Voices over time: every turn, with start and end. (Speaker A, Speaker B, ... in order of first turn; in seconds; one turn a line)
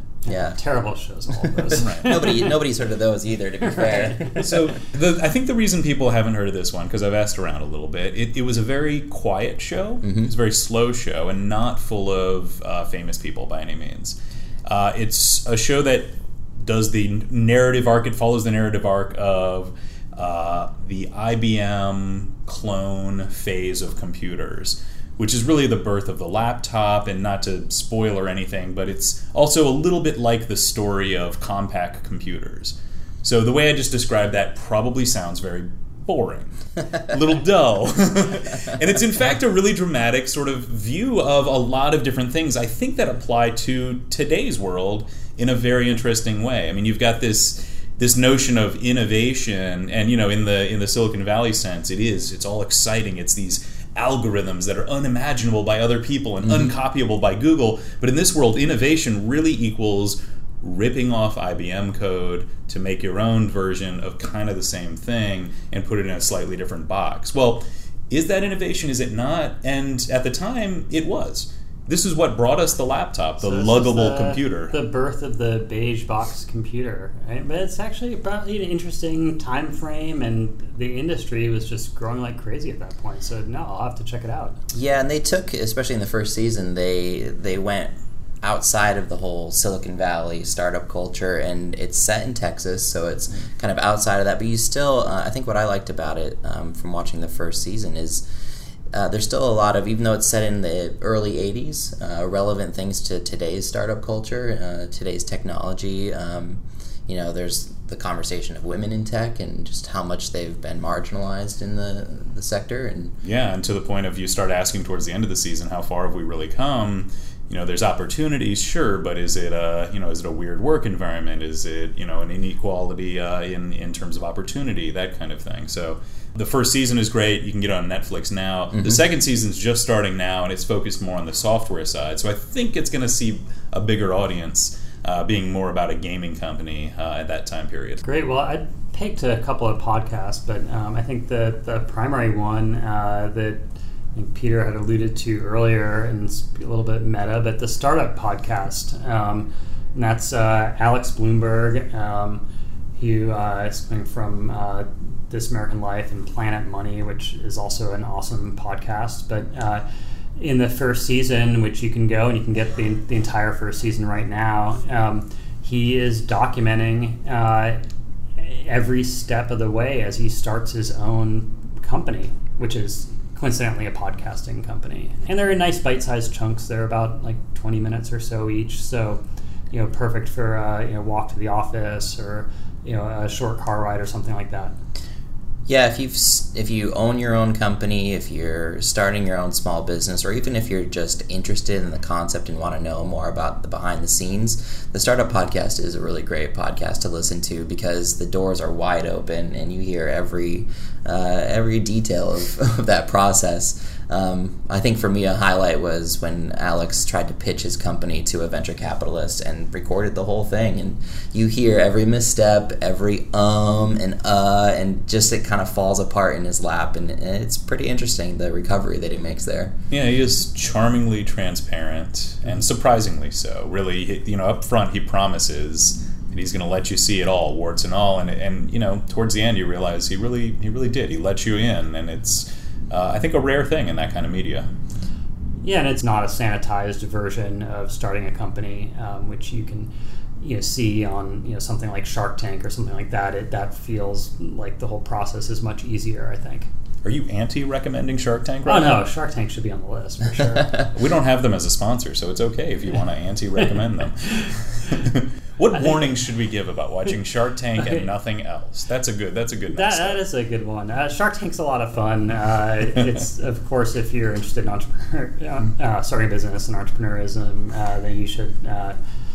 Speaker A: 0.2-0.6
Speaker B: 0.2-2.5
Speaker A: 1.6-4.7
Speaker C: 1.8-2.2
Speaker B: 3.7-4.2
Speaker C: 4.3-74.7
Speaker A: 10.0-10.3
Speaker B: 73.4-84.6
Speaker A: 84.7-98.2
Speaker A: 98.9-113.1
Speaker C: 113.2-138.1
Speaker B: 138.1-152.4
Speaker B: 152.9-159.8
Speaker B: 160.4-167.8
Speaker B: 168.4-179.2
Speaker B: 179.7-184.7
Speaker A: 185.7-219.7
Speaker C: 219.9-234.7
Speaker B: 235.6-246.7
Speaker C: 247.0-249.0
Speaker B: 248.6-250.8
Speaker C: 250.9-260.2
Speaker B: 259.7-269.0